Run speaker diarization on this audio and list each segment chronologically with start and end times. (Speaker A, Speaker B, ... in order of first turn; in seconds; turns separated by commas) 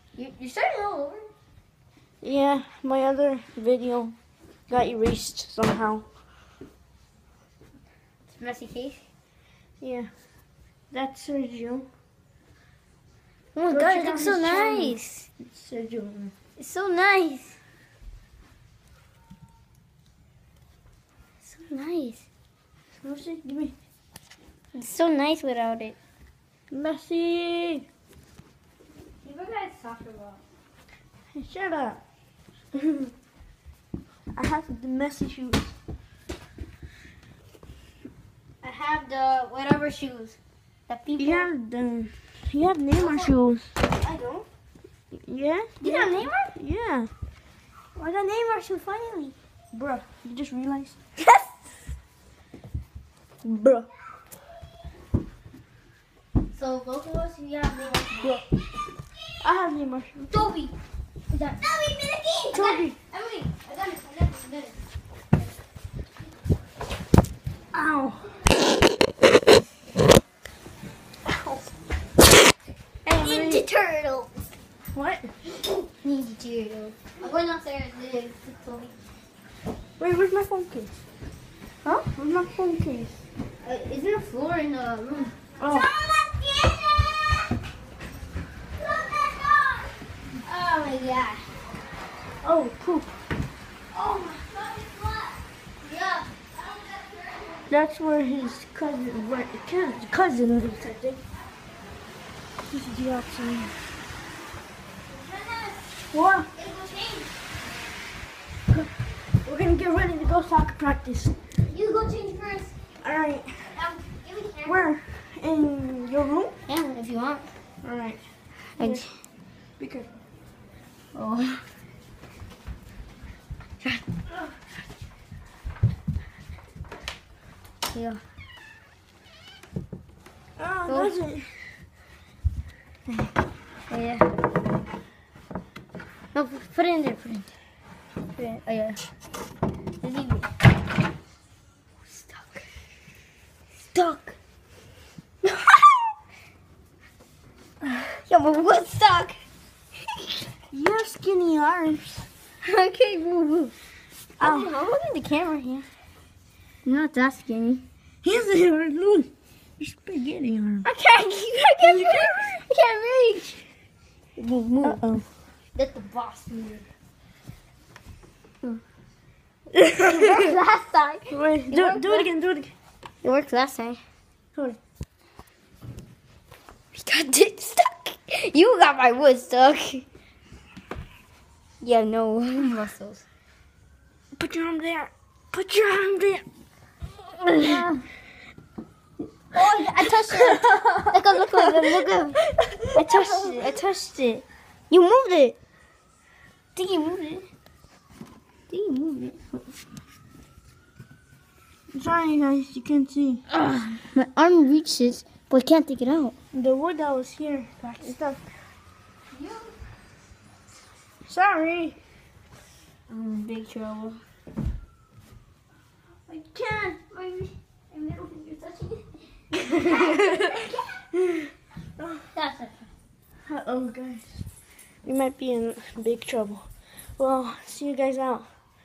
Speaker A: 0.2-1.3, Speaker B: 2.2-4.1, Speaker B: 4.7-6.0, Speaker A: 8.3-9.0, Speaker B: 9.8-10.1, Speaker B: 10.9-11.9, Speaker A: 13.6-15.3, Speaker B: 13.7-16.3, Speaker A: 16.6-17.6, Speaker A: 21.4-22.2, Speaker B: 23.0-23.8, Speaker A: 24.7-26.0, Speaker B: 26.7-27.9, Speaker A: 29.2-30.4, Speaker B: 31.3-32.0, Speaker B: 32.7-33.1, Speaker B: 34.4-35.7, Speaker A: 38.6-41.5, Speaker B: 41.2-43.8, Speaker A: 43.0-43.3, Speaker A: 43.8-44.5, Speaker B: 45.1-47.1, Speaker A: 45.8-46.5, Speaker A: 48.0-49.4, Speaker B: 49.7-51.0, Speaker A: 51.2-51.5, Speaker B: 53.4-53.9, Speaker A: 56.5-58.5, Speaker B: 59.4-60.3, Speaker A: 60.3-60.7, Speaker A: 61.3-64.8, Speaker B: 62.5-63.0, Speaker B: 67.7-68.4, Speaker B: 71.2-71.7, Speaker B: 73.1-73.7, Speaker A: 73.1-74.3, Speaker B: 74.9-75.3, Speaker A: 75.6-78.9, Speaker B: 80.0-81.0, Speaker A: 81.8-82.1, Speaker B: 82.1-83.2, Speaker A: 83.6-87.5, Speaker B: 85.6-85.9, Speaker A: 88.8-89.9, Speaker A: 90.4-91.5, Speaker B: 92.4-93.1, Speaker A: 93.9-97.7, Speaker B: 97.7-101.2, Speaker B: 102.7-103.8, Speaker A: 105.1-105.9, Speaker B: 106.1-106.5, Speaker A: 106.5-107.4, Speaker B: 109.5-111.3, Speaker A: 111.7-112.8, Speaker B: 113.0-113.8, Speaker A: 113.7-114.9, Speaker B: 114.7-116.5, Speaker A: 116.7-117.5, Speaker B: 117.8-118.2, Speaker A: 118.8-119.1, Speaker B: 118.8-119.1, Speaker B: 119.8-120.1, Speaker A: 121.2-121.6, Speaker A: 127.9-128.2, Speaker B: 130.6-131.7, Speaker A: 130.9-131.2, Speaker A: 133.9-134.3, Speaker A: 136.3-137.5, Speaker A: 138.5-139.0, Speaker A: 140.0-140.5, Speaker A: 142.1-142.6, Speaker A: 143.9-144.3, Speaker A: 148.3-149.4, Speaker B: 150.7-152.3, Speaker A: 152.6-153.8, Speaker A: 154.4-155.9, Speaker B: 154.4-154.7, Speaker A: 156.8-157.8, Speaker B: 158.2-160.9, Speaker A: 160.8-163.6, Speaker B: 161.8-162.6, Speaker A: 164.4-165.0, Speaker B: 164.8-165.2, Speaker A: 165.8-166.9, Speaker B: 169.7-170.5, Speaker A: 170.0-172.3, Speaker B: 171.3-172.7, Speaker A: 173.2-174.0, Speaker A: 176.9-180.1, Speaker A: 181.8-183.2, Speaker B: 184.4-186.4, Speaker B: 187.4-187.9, Speaker A: 187.6-188.0, Speaker A: 189.5-192.4, Speaker B: 190.4-191.1, Speaker B: 192.5-193.8, Speaker A: 192.9-195.6, Speaker A: 196.8-197.5, Speaker A: 198.7-199.6, Speaker B: 201.9-203.4, Speaker A: 203.5-206.3, Speaker B: 206.5-208.4, Speaker A: 209.3-209.8, Speaker B: 211.3-212.0, Speaker A: 213.1-214.2, Speaker B: 216.3-216.8, Speaker A: 216.3-220.8, Speaker B: 219.7-222.2, Speaker A: 222.3-222.9, Speaker B: 223.5-224.4, Speaker B: 225.1-226.7, Speaker B: 227.2-228.5